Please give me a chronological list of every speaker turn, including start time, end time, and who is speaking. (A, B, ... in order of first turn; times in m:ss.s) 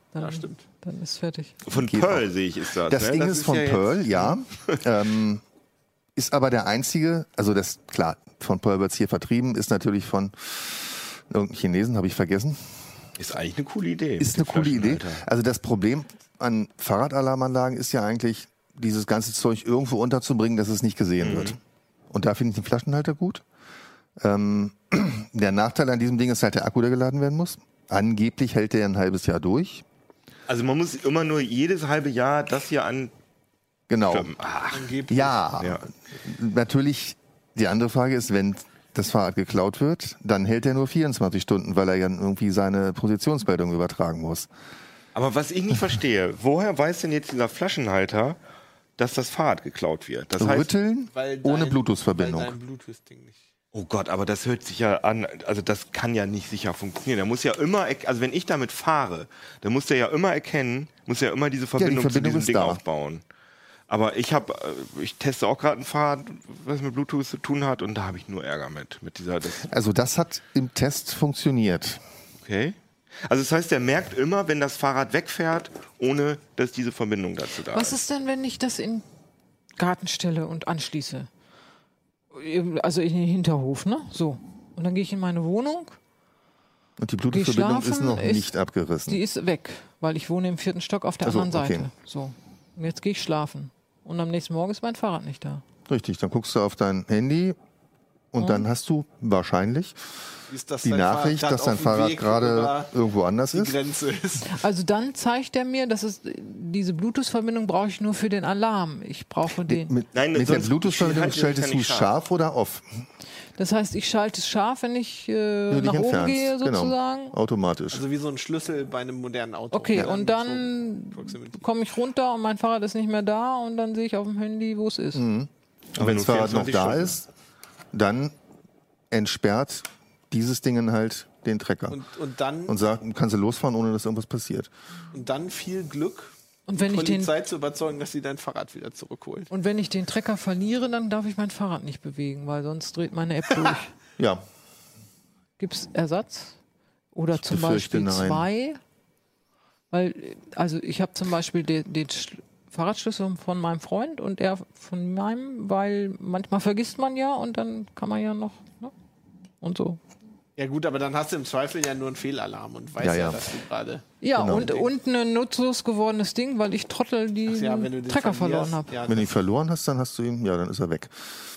0:00.1-0:01.6 A
0:00.2-0:00.6 B
0:01.6-0:04.8 C
0:01.7-0:02.3 D
0:02.9-0:05.4 D
0:06.2-0:12.8 D
0:13.2-0:15.2 C
0:14.2-0:21.6 D
0:21.2-0:21.6 C
0:22.1-0:23.4 D
0:24.2-0:29.8 D
0:30.5-0:33.1 C
0:33.9-0:34.3 D
0:34.1-0:34.9 C
0:34.7-0:35.4 B
0:35.1-0:44.5 D
0:35.6-0:35.8 C
0:45.2-0:48.4 C
0:49.0-0:50.7 C
0:50.4-0:52.5 D
0:51.1-0:53.4 B
0:53.7-1:03.2 C
1:01.8-1:02.8 D
1:03.9-1:09.7 C
1:09.6-1:12.0 D
1:12.4-1:18.0 C
1:17.7-1:19.0 A
1:19.8-1:21.3 A
1:22.3-1:26.0 A
1:27.0-1:29.2 D
1:27.3-1:28.5 A
1:29.1-1:35.6 A
1:31.2-1:31.9 D
1:35.9-1:37.6 D
1:38.3-1:40.0 D
1:38.4-1:38.6 A
1:40.5-1:42.9 B
1:40.8-1:43.8 D
1:43.5-1:44.6 B
1:44.5-1:49.9 A
1:49.5-1:53.0 D
1:50.1-1:52.1 C
1:53.6-1:57.4 A
1:55.7-1:58.0 D
1:57.9-2:01.6 B
1:59.7-2:05.2 A
2:05.2-2:07.2 D
2:06.0-2:07.2 C
2:07.9-2:08.4 D
2:09.1-2:12.0 D
2:11.9-2:12.8 B
2:12.7-2:14.7 D
2:15.1-2:19.5 B
2:16.7-2:17.3 A
2:19.5-2:24.0 A
2:24.2-2:24.4 D
2:25.6-2:26.6 A
2:27.1-2:28.8 A
2:27.3-2:28.5 D
2:29.9-2:38.9 A
2:39.6-2:40.0 A
2:40.6-2:44.0 B
2:43.0-2:43.4 D
2:44.2-2:49.0 A
2:44.3-2:44.9 D
2:47.5-2:49.3 B
2:49.1-2:51.3 D